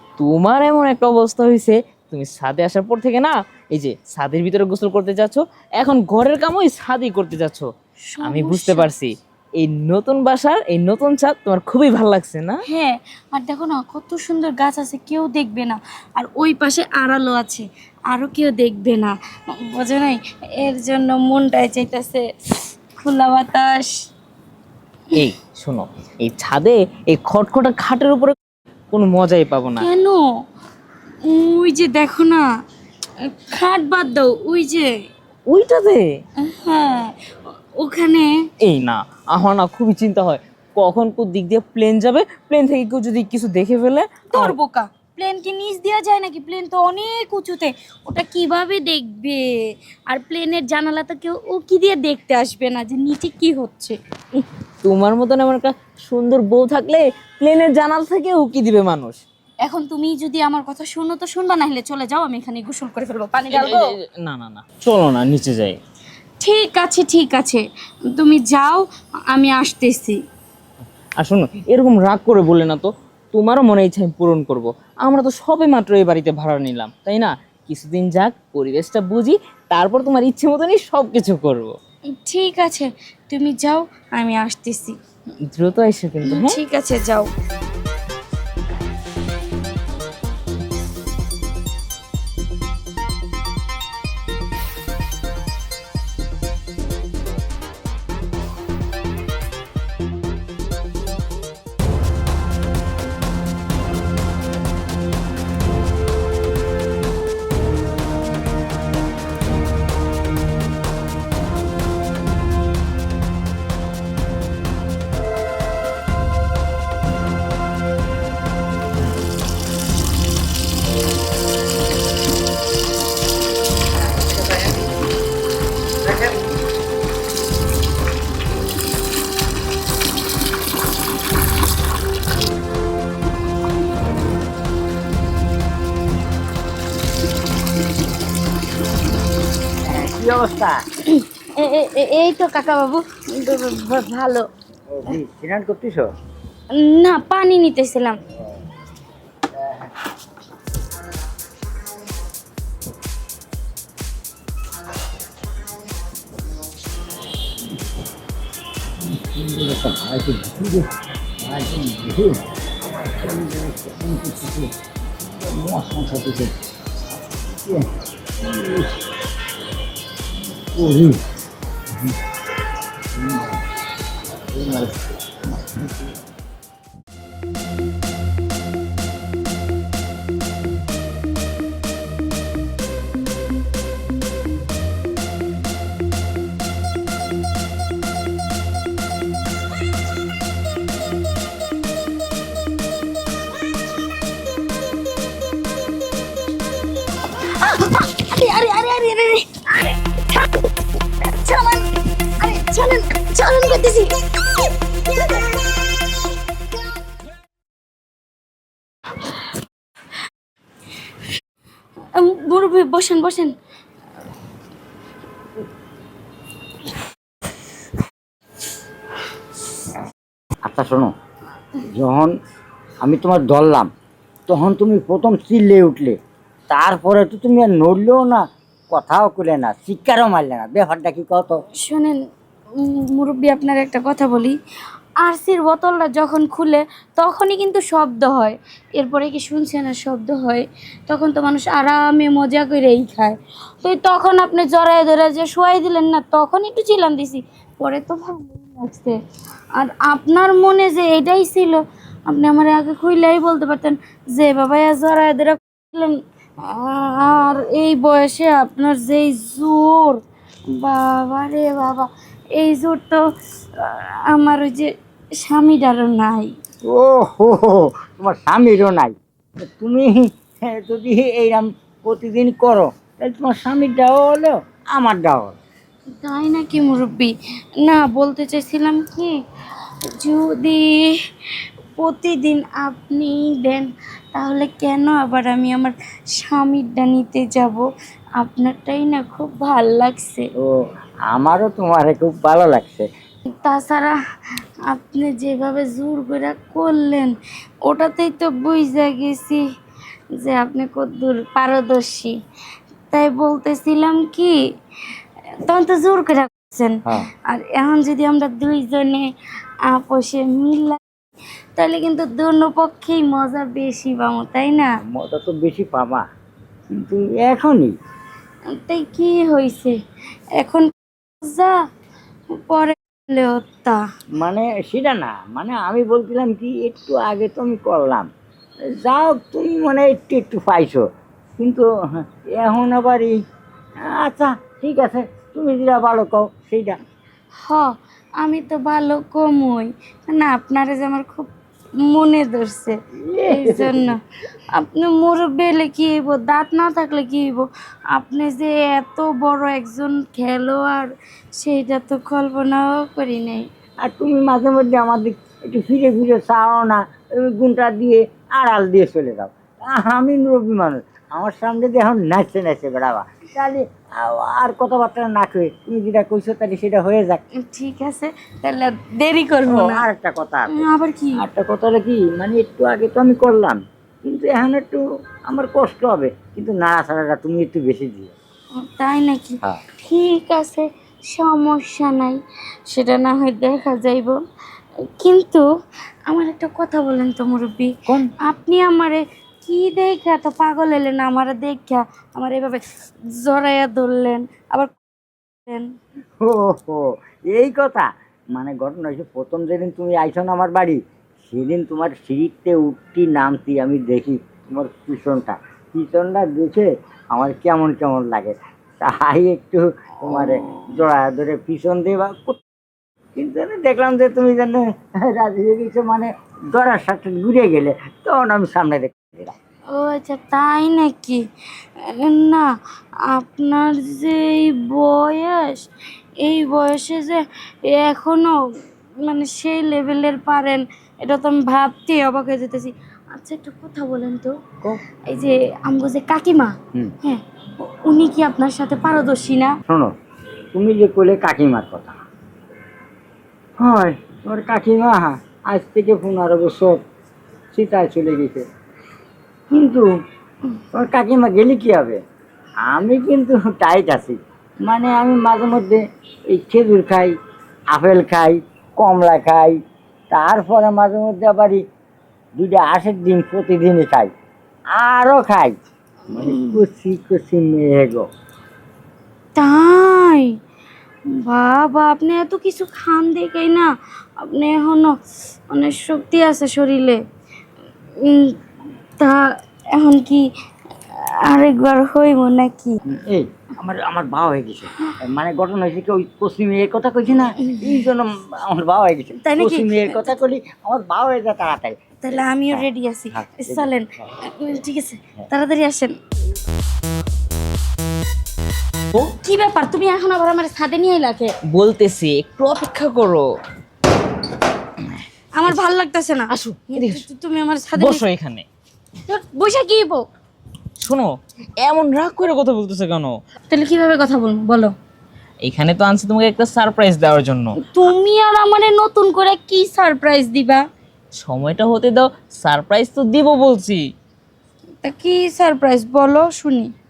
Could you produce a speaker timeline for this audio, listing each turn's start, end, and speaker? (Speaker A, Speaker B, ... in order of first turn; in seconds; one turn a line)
Speaker A: 0.2-7.7
Speaker B: 8.1-8.9
Speaker A: 8.2-12.6
Speaker B: 12.7-22.2
Speaker B: 23.0-24.0
Speaker A: 25.1-28.4
Speaker A: 28.9-29.9
Speaker B: 29.8-30.2
Speaker B: 31.2-32.4
Speaker B: 33.2-34.9
Speaker A: 35.5-36.1
Speaker B: 36.4-37.1
Speaker B: 37.8-38.3
Speaker A: 38.6-44.5
Speaker B: 44.3-54.0
Speaker A: 54.8-59.2
Speaker B: 59.6-63.9
Speaker A: 63.5-65.8
Speaker B: 66.4-70.2
Speaker A: 71.2-81.7
Speaker B: 82.1-85.0
Speaker A: 85.5-86.6
Speaker B: 86.2-87.3
Speaker C: 139.9-140.8
Speaker B: 141.1-144.5
Speaker C: 144.9-146.1
Speaker B: 146.7-148.2
Speaker C: 159.0-162.4
Speaker C: 163.0-166.5
Speaker C: 167.3-169.0
Speaker C: 170.5-171.2
Speaker C: 173.2-173.6
Speaker C: 174.5-176.1
Speaker B: 197.4-200.7
Speaker B: 201.2-204.1
Speaker B: 212.1-213.5
Speaker C: 220.6-221.1
Speaker C: 221.8-222.3
Speaker C: 223.0-223.9
Speaker C: 224.5-226.2
Speaker C: 226.7-231.6
Speaker B: 231.8-232.2
Speaker B: 232.8-234.6
Speaker B: 235.2-249.2
Speaker B: 249.7-260.2
Speaker B: 260.7-263.2
Speaker B: 263.8-264.9
Speaker B: 265.4-266.5
Speaker C: 266.9-269.1
Speaker C: 269.7-275.6
Speaker B: 276.2-279.4
Speaker B: 280.1-281.1
Speaker B: 282.0-287.9
Speaker B: 288.4-290.5
Speaker C: 291.3-293.1
Speaker B: 293.6-294.1
Speaker B: 294.9-297.3
Speaker B: 297.8-299.6
Speaker B: 300.4-302.3
Speaker B: 303.1-304.5
Speaker B: 305.6-309.2
Speaker B: 309.9-311.0
Speaker B: 311.8-314.9
Speaker C: 315.1-316.2
Speaker C: 316.9-317.9
Speaker B: 318.8-319.9
Speaker B: 320.6-320.8
Speaker B: 321.4-321.7
Speaker B: 322.5-324.0
Speaker C: 324.4-328.3
Speaker C: 328.9-331.0
Speaker C: 331.6-333.3
Speaker C: 334.0-337.0
Speaker B: 338.4-341.5
Speaker B: 342.0-344.2
Speaker C: 343.2-344.1
Speaker B: 344.7-353.6
Speaker C: 354.0-367.4
Speaker B: 367.6-370.0
Speaker C: 369.6-370.8
Speaker B: 370.7-371.4
Speaker C: 371.4-378.3
Speaker B: 378.8-384.4
Speaker B: 385.2-385.6
Speaker B: 386.3-392.8
Speaker B: 393.4-395.0
Speaker B: 395.6-395.9
Speaker C: 396.4-412.6
Speaker C: 413.4-419.5
Speaker B: 419.9-421.4
Speaker B: 422.0-422.7
Speaker B: 423.3-425.9
Speaker B: 426.4-434.6
Speaker B: 435.3-439.8
Speaker C: 439.9-440.1
Speaker C: 440.7-442.1
Speaker C: 443.8-447.0
Speaker C: 447.7-448.6
Speaker C: 449.7-450.1
Speaker C: 450.9-452.2
Speaker C: 452.9-457.3
Speaker C: 457.9-459.7
Speaker C: 460.3-461.8
Speaker C: 462.6-464.3
Speaker C: 464.9-465.7
Speaker C: 466.3-468.2
Speaker B: 466.3-466.8
Speaker B: 469.6-470.5
Speaker B: 471.4-473.9
Speaker B: 474.4-475.1
Speaker B: 475.7-477.2
Speaker B: 478.2-478.6
Speaker B: 479.2-480.4
Speaker B: 481.1-483.0
Speaker C: 483.1-492.0
Speaker B: 487.6-488.0
Speaker B: 489.4-490.3
Speaker B: 492.2-496.1
Speaker C: 492.7-493.9
Speaker B: 499.3-501.5
Speaker A: 501.7-503.5
Speaker B: 505.5-508.2
Speaker A: 506.5-507.2
Speaker A: 507.9-508.6
Speaker B: 509.3-510.2
Speaker A: 511.0-513.4
Speaker B: 513.7-514.9
Speaker A: 515.6-517.7
Speaker B: 517.8-520.8
Speaker A: 521.4-524.0
Speaker B: 525.0-526.9